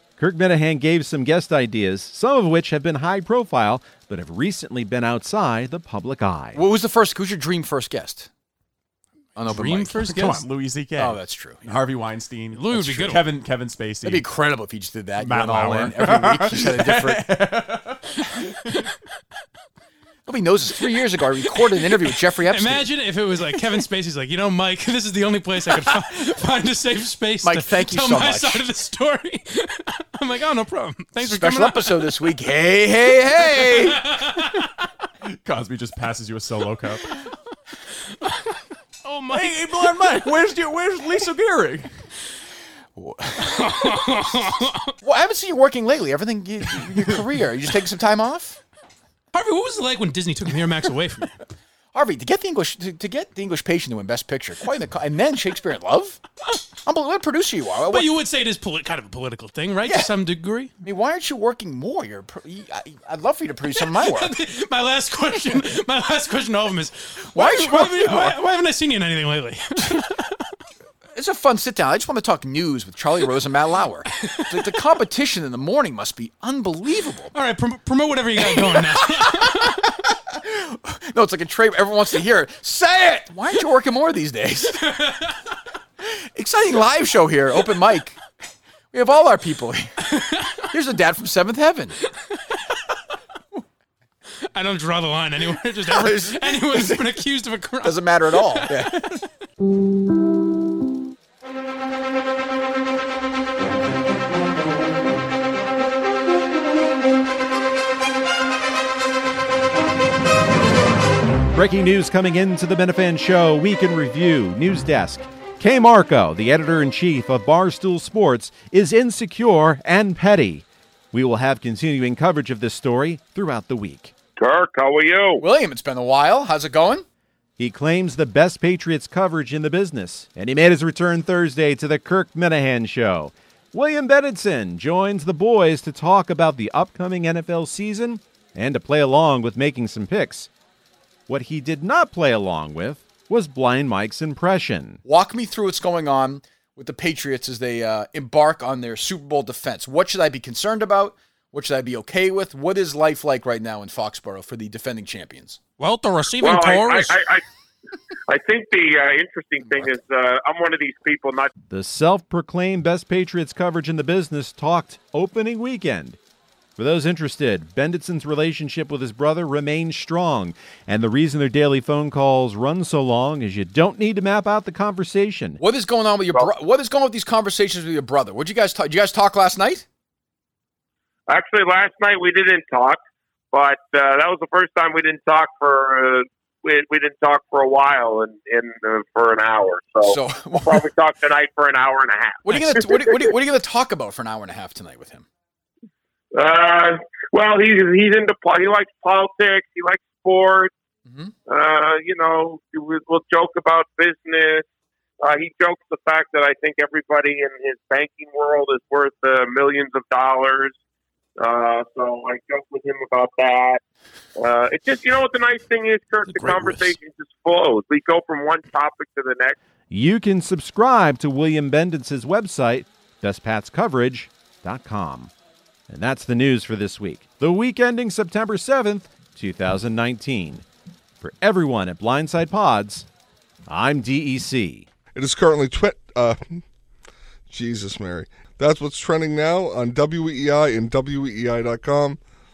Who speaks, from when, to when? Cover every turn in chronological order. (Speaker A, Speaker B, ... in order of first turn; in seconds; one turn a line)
Speaker A: 0.2-6.6
Speaker B: 6.5-8.3
Speaker B: 9.4-10.0
Speaker C: 9.6-10.5
Speaker D: 10.0-11.1
Speaker B: 11.0-11.8
Speaker D: 11.7-14.2
Speaker C: 12.5-13.2
Speaker B: 14.0-17.3
Speaker D: 15.2-18.7
Speaker C: 15.6-15.9
Speaker B: 20.3-22.9
Speaker C: 22.1-32.2
Speaker B: 23.5-23.8
Speaker B: 27.4-28.6
Speaker B: 31.2-34.0
Speaker C: 33.4-34.6
Speaker D: 35.2-37.1
Speaker C: 38.1-40.2
Speaker D: 39.3-41.9
Speaker B: 43.0-44.0
Speaker C: 43.4-44.9
Speaker B: 45.0-48.6
Speaker C: 49.3-51.4
Speaker B: 51.9-56.2
Speaker B: 56.8-58.1
Speaker C: 57.9-60.7
Speaker B: 59.8-60.1
Speaker B: 60.8-64.4
Speaker C: 63.8-70.5
Speaker B: 67.3-68.4
Speaker B: 71.2-77.3
Speaker C: 74.3-74.7
Speaker C: 77.3-79.8
Speaker B: 78.7-84.9
Speaker C: 84.8-85.3
Speaker B: 86.0-88.2
Speaker B: 88.9-90.1
Speaker C: 90.1-90.6
Speaker B: 90.6-92.0
Speaker C: 92.3-92.6
Speaker C: 94.5-99.2
Speaker B: 95.8-97.2
Speaker B: 97.8-99.2
Speaker A: 111.5-124.1
Speaker E: 124.4-125.4
Speaker B: 125.4-127.0
Speaker A: 127.6-140.5
Speaker A: 141.3-145.0
Speaker B: 145.1-155.6
Speaker C: 155.8-157.2
Speaker E: 156.4-157.4
Speaker E: 158.3-161.5
Speaker B: 159.7-160.0
Speaker A: 161.7-166.2
Speaker A: 166.8-175.6
Speaker B: 175.6-179.9
Speaker E: 181.3-183.0
Speaker E: 183.5-192.4
Speaker B: 190.1-190.9
Speaker B: 192.4-195.3
Speaker E: 196.3-200.7
Speaker B: 201.1-201.3
Speaker E: 201.5-204.7
Speaker E: 205.2-210.8
Speaker E: 211.4-213.8
Speaker E: 214.4-219.6
Speaker A: 219.9-225.3
Speaker A: 225.9-230.7
Speaker A: 231.2-233.1
Speaker A: 233.7-234.9
Speaker F: 235.2-236.6
Speaker F: 237.5-242.2